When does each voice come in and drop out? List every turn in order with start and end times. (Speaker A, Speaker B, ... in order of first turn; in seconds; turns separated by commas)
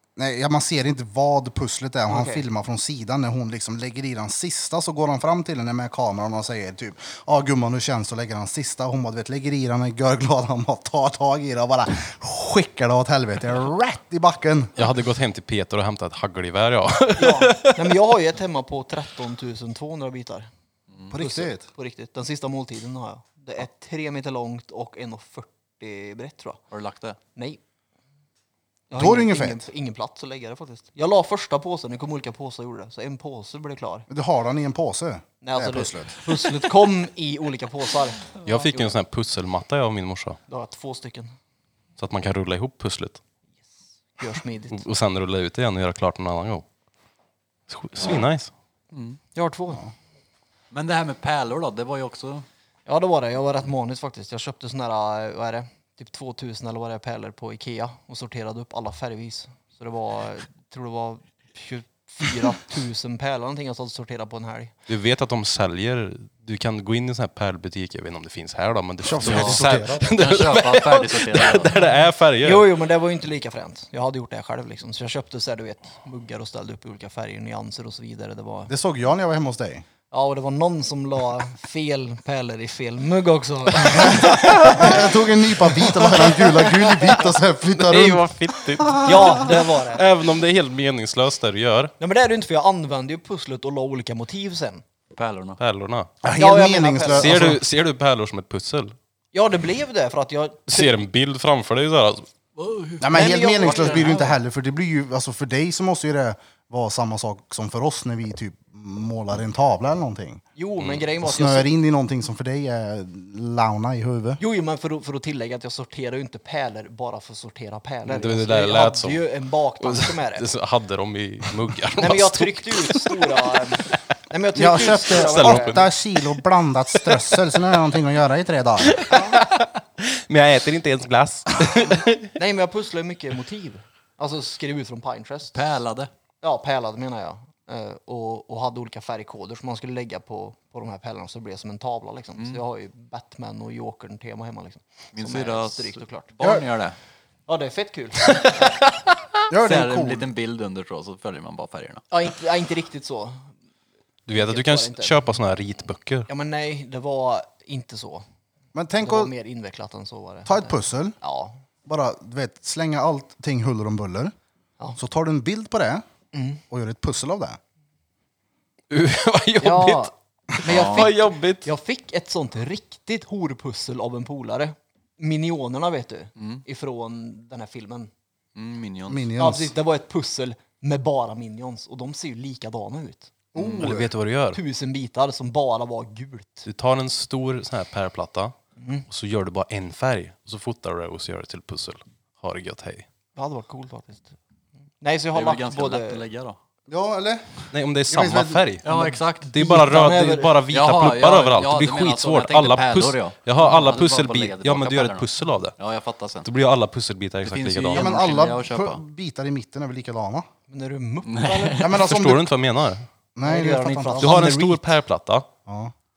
Speaker A: 0.2-14.8, Speaker B: 2.1-2.4, Speaker C: 14.8-18.0, Speaker B: 17.2-20.5, Speaker A: 21.1-21.7, Speaker B: 21.1-26.6, Speaker D: 26.7-27.2, Speaker B: 27.4-27.6, Speaker B: 28.9-34.1, Speaker A: 28.9-29.7, Speaker A: 34.1-36.3, Speaker B: 35.4-39.0, Speaker C: 38.4-40.4, Speaker B: 40.5-41.4, Speaker C: 42.0-43.2, Speaker B: 44.2-44.8, Speaker C: 44.7-46.7, Speaker C: 47.7-48.5, Speaker D: 48.9-49.2, Speaker B: 49.3-49.8, Speaker D: 50.7-52.5, Speaker B: 52.9-64.7, Speaker C: 64.9-72.7, Speaker A: 69.0-70.0, Speaker D: 69.2-71.7, Speaker B: 72.4-78.7, Speaker A: 78.7-79.8, Speaker B: 80.1-86.5, Speaker A: 84.1-88.3, Speaker C: 87.7-91.9, Speaker B: 89.0-90.0, Speaker B: 92.0-94.8, Speaker D: 95.1-95.6, Speaker C: 95.6-96.1, Speaker A: 96.2-97.6, Speaker B: 96.3-97.5, Speaker C: 97.1-99.0, Speaker B: 99.3-101.0, Speaker C: 100.7-102.3, Speaker D: 102.6-104.3, Speaker A: 103.0-110.4, Speaker B: 103.1-104.3, Speaker B: 110.5-111.7, Speaker C: 110.8-111.1, Speaker A: 111.2-114.4, Speaker B: 114.4-120.5, Speaker C: 118.0-119.3, Speaker C: 119.8-123.4, Speaker B: 122.0-125.9, Speaker A: 124.5-129.0, Speaker C: 124.8-125.9, Speaker C: 127.0-127.6, Speaker C: 128.8-132.3, Speaker B: 129.1-129.4, Speaker B: 132.4-135.6, Speaker D: 135.5-136.1, Speaker B: 136.4-146.4, Speaker D: 142.4-142.6, Speaker D: 145.1-147.0, Speaker B: 147.5-148.8, Speaker A: 149.5-150.3, Speaker D: 149.6-152.0, Speaker B: 152.1-153.5, Speaker C: 154.3-156.3, Speaker B: 154.3-155.2, Speaker B: 156.3-158.2, Speaker A: 158.7-159.3, Speaker B: 159.0-161.6, Speaker A: 160.5-161.2, Speaker A: 161.9-164.3, Speaker A: 165.0-166.1, Speaker B: 166.3-166.6, Speaker A: 166.7-167.6, Speaker C: 168.9-170.1, Speaker B: 169.6-170.1, Speaker C: 170.7-171.7, Speaker B: 170.7-178.1, Speaker D: 170.7-171.1, Speaker D: 176.4-176.6, Speaker D: 178.6-179.3, Speaker A: 179.1-179.7, Speaker B: 179.4-183.4, Speaker A: 183.5-184.1, Speaker D: 183.6-183.8, Speaker C: 183.7-184.6, Speaker B: 184.5-186.7, Speaker C: 186.7-188.6, Speaker B: 188.8-189.1, Speaker C: 189.1-193.1, Speaker B: 193.3-194.3, Speaker B: 195.0-196.3, Speaker D: 195.3-196.6, Speaker A: 196.9-198.7, Speaker C: 197.7-198.9, Speaker D: 198.8-199.5, Speaker B: 198.9-200.7, Speaker C: 199.4-205.7, Speaker D: 200.7-206.5, Speaker C: 206.4-208.2, Speaker D: 207.4-209.0, Speaker A: 207.9-210.5, Speaker B: 210.7-211.9, Speaker D: 211.3-212.0, Speaker A: 211.8-212.5, Speaker C: 212.1-213.1, Speaker A: 213.3-214.4, Speaker B: 213.4-214.9, Speaker C: 214.2-215.5, Speaker A: 215.7-215.9